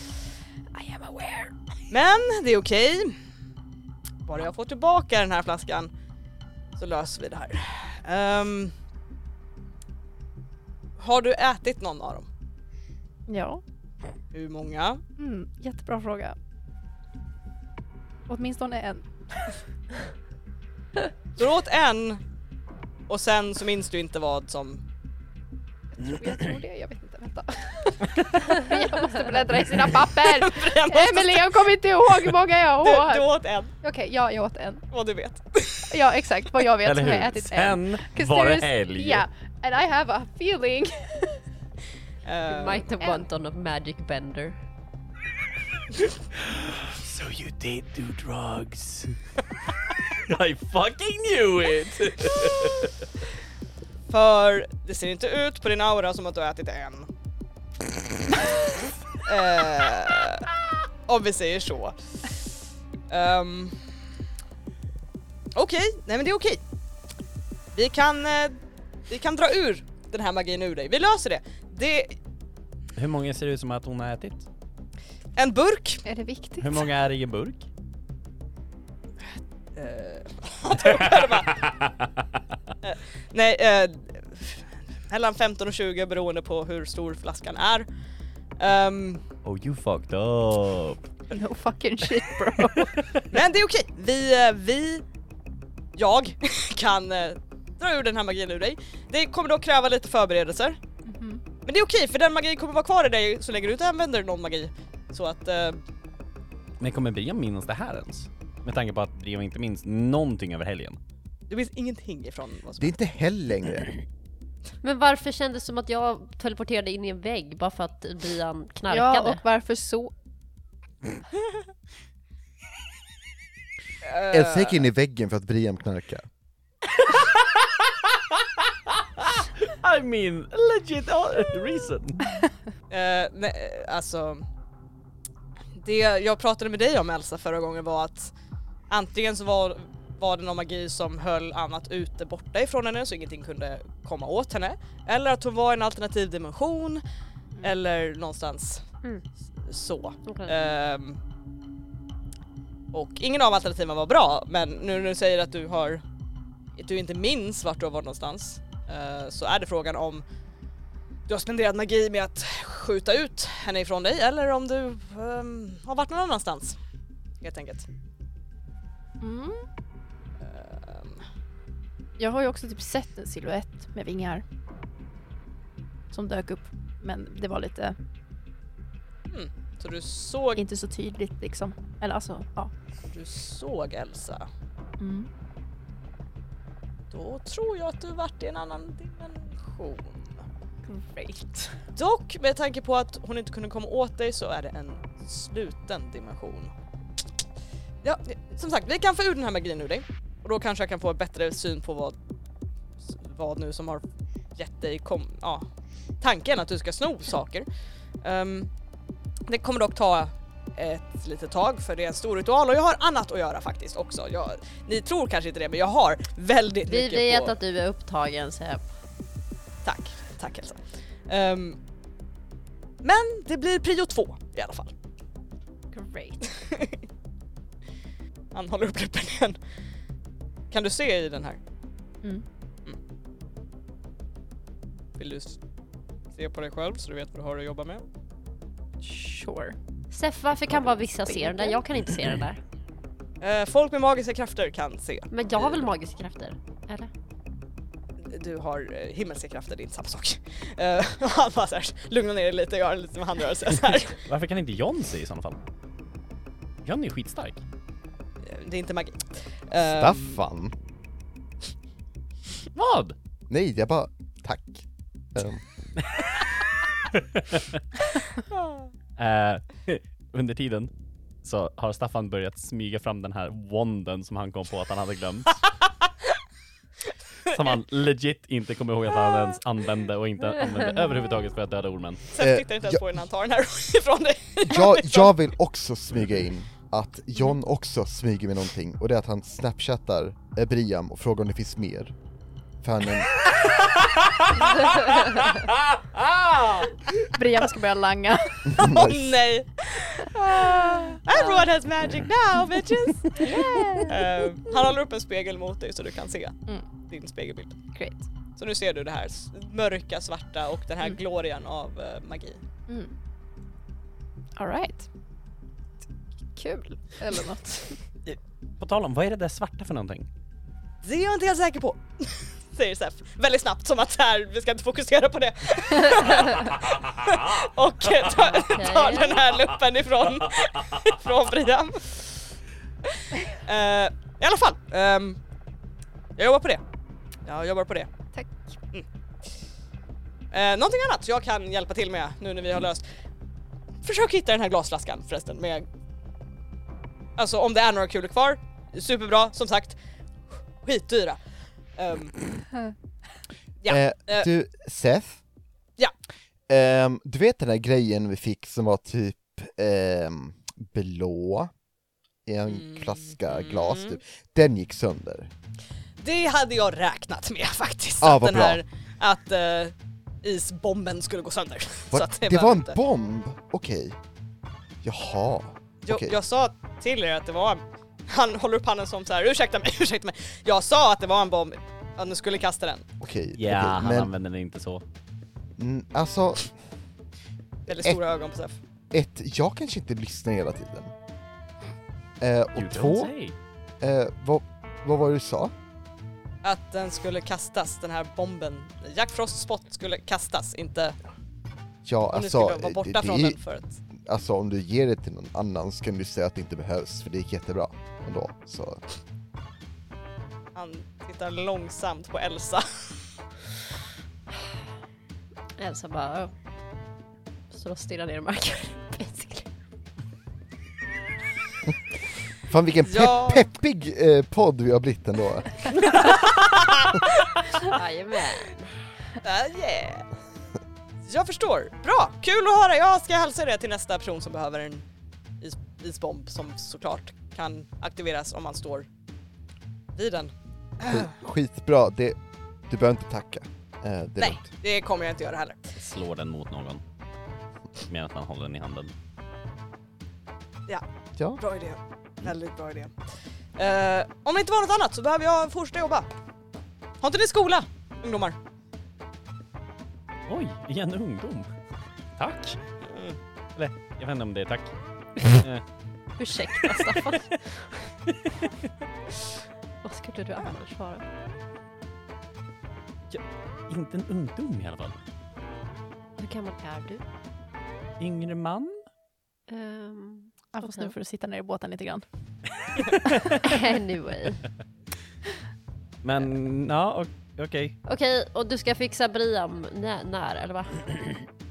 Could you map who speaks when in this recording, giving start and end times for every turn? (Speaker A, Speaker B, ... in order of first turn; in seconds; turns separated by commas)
Speaker A: 0.8-3.2, Speaker A: 4.2-5.9, Speaker A: 6.8-8.7, Speaker A: 11.0-12.3, Speaker B: 13.3-13.6, Speaker A: 14.3-15.0, Speaker B: 15.2-16.4, Speaker B: 18.3-19.6, Speaker A: 21.4-22.2, Speaker A: 23.1-24.8, Speaker B: 26.0-33.3, Speaker A: 30.2-33.7, Speaker B: 33.8-34.9, Speaker A: 34.9-36.0, Speaker B: 35.9-41.4, Speaker C: 36.8-39.2, Speaker A: 42.2-42.9, Speaker D: 42.5-44.6, Speaker B: 43.0-43.3, Speaker C: 46.4-49.2, Speaker C: 50.1-53.0, Speaker A: 54.1-57.1, Speaker A: 58.3-58.6, Speaker A: 59.2-60.5, Speaker A: 61.1-62.4, Speaker A: 63.1-63.8, Speaker A: 65.5-66.6, Speaker A: 67.7-72.2, Speaker C: 73.0-74.5, Speaker A: 75.4-76.0, Speaker B: 76.0-76.9, Speaker C: 76.6-77.7, Speaker A: 79.8-81.7, Speaker C: 81.6-82.1, Speaker A: 82.8-87.9, Speaker A: 88.6-89.2, Speaker C: 89.4-91.0, Speaker B: 91.3-93.1, Speaker C: 92.8-93.2, Speaker A: 93.3-95.0, Speaker A: 96.0-100.8, Speaker B: 101.1-101.4, Speaker A: 101.7-105.8, Speaker C: 106.8-111.0, Speaker A: 111.5-113.0, Speaker E: 112.8-113.9, Speaker D: 114.8-119.4, Speaker B: 118.9-120.1, Speaker A: 124.0-124.9, Speaker E: 124.3-126.3, Speaker C: 127.0-132.4, Speaker A: 132.9-134.5, Speaker A: 135.8-138.3, Speaker A: 138.9-147.0, Speaker A: 147.6-148.8, Speaker A: 149.6-151.2, Speaker D: 150.3-150.6, Speaker A: 152.9-156.0, Speaker A: 156.8-160.2, Speaker A: 161.3-166.8, Speaker A: 167.4-167.9, Speaker B: 169.2-169.7, Speaker A: 170.4-171.2, Speaker B: 172.2-174.4, Speaker B: 176.1-178.0, Speaker A: 179.3-180.6, Speaker B: 180.6-182.7, Speaker A: 183.1-184.5, Speaker B: 185.0-185.3, Speaker A: 187.1-190.4, Speaker B: 190.9-191.8, Speaker A: 192.0-196.7, Speaker A: 198.0-202.2, Speaker A: 203.0-204.0, Speaker A: 204.6-205.7, Speaker A: 206.2-207.7, Speaker A: 208.2-208.7, Speaker A: 209.5-217.6, Speaker D: 216.9-218.9, Speaker A: 219.8-221.8, Speaker A: 223.0-224.9, Speaker B: 225.9-226.5, Speaker A: 226.5-227.0, Speaker A: 228.5-229.6, Speaker A: 230.7-231.6, Speaker A: 235.2-235.6, Speaker A: 236.3-238.1, Speaker B: 239.0-239.8, Speaker D: 240.1-242.6, Speaker B: 240.9-241.8, Speaker A: 243.4-245.9, Speaker D: 245.3-247.1, Speaker A: 248.3-254.2, Speaker C: 254.2-255.6, Speaker C: 256.9-257.6, Speaker A: 258.4-260.4, Speaker E: 259.9-260.8, Speaker C: 262.7-263.2, Speaker E: 263.5-265.6, Speaker C: 267.1-267.8, Speaker A: 268.4-268.9, Speaker C: 269.2-270.9, Speaker C: 271.4-275.6, Speaker C: 277.5-282.2, Speaker A: 282.3-285.4, Speaker E: 282.4-283.0, Speaker E: 284.6-292.1, Speaker E: 292.8-293.5, Speaker C: 294.0-296.9, Speaker B: 297.2-298.9, Speaker E: 298.7-299.4, Speaker A: 298.8-307.8, Speaker B: 300.5-301.2, Speaker B: 303.4-304.2, Speaker B: 307.9-308.3, Speaker A: 308.6-312.6, Speaker B: 312.9-313.1, Speaker B: 314.6-315.1, Speaker B: 316.5-318.0, Speaker C: 318.3-320.3, Speaker A: 321.0-332.2, Speaker D: 328.3-329.5, Speaker A: 333.2-335.4, Speaker A: 336.4-336.8, Speaker A: 337.5-338.1, Speaker A: 340.5-343.0, Speaker A: 344.0-345.9, Speaker A: 347.4-350.0, Speaker A: 350.8-351.4, Speaker A: 352.0-352.4, Speaker A: 353.8-354.5, Speaker E: 353.9-355.4, Speaker E: 356.7-361.7, Speaker E: 362.5-365.5, Speaker A: 362.7-364.2, Speaker A: 366.2-373.0, Speaker E: 368.2-368.8, Speaker E: 372.1-374.2, Speaker E: 375.0-376.4, Speaker A: 376.1-383.1, Speaker E: 383.2-384.3, Speaker C: 383.5-385.0, Speaker E: 385.8-386.8, Speaker A: 387.9-388.8, Speaker E: 387.9-388.2, Speaker E: 389.1-391.1, Speaker E: 392.4-393.3, Speaker C: 392.8-393.6, Speaker E: 394.0-395.7, Speaker A: 396.6-401.2, Speaker E: 402.1-403.6, Speaker A: 402.3-404.0, Speaker E: 404.2-409.0, Speaker A: 410.8-413.1, Speaker D: 415.8-416.5, Speaker D: 417.7-419.7, Speaker E: 422.6-425.9, Speaker A: 423.1-423.7, Speaker A: 426.1-427.5, Speaker D: 427.9-428.9, Speaker A: 429.4-430.3, Speaker A: 431.3-435.1, Speaker A: 435.6-439.1, Speaker A: 440.1-441.3, Speaker E: 441.0-442.4, Speaker E: 442.9-444.7, Speaker A: 444.4-445.9, Speaker C: 446.0-447.0, Speaker C: 448.0-449.1, Speaker A: 451.6-453.1, Speaker A: 453.8-456.3, Speaker A: 457.2-458.6, Speaker C: 460.5-461.7, Speaker C: 462.4-462.8, Speaker A: 463.0-463.4, Speaker C: 463.8-465.8, Speaker D: 466.4-468.1, Speaker C: 466.9-467.3, Speaker D: 470.0-471.2, Speaker C: 473.3-475.2, Speaker D: 476.4-477.2, Speaker C: 478.2-479.0, Speaker D: 479.7-481.1, Speaker B: 480.7-482.2, Speaker B: 483.3-483.7, Speaker D: 483.6-484.7, Speaker C: 486.2-488.0, Speaker D: 488.1-491.4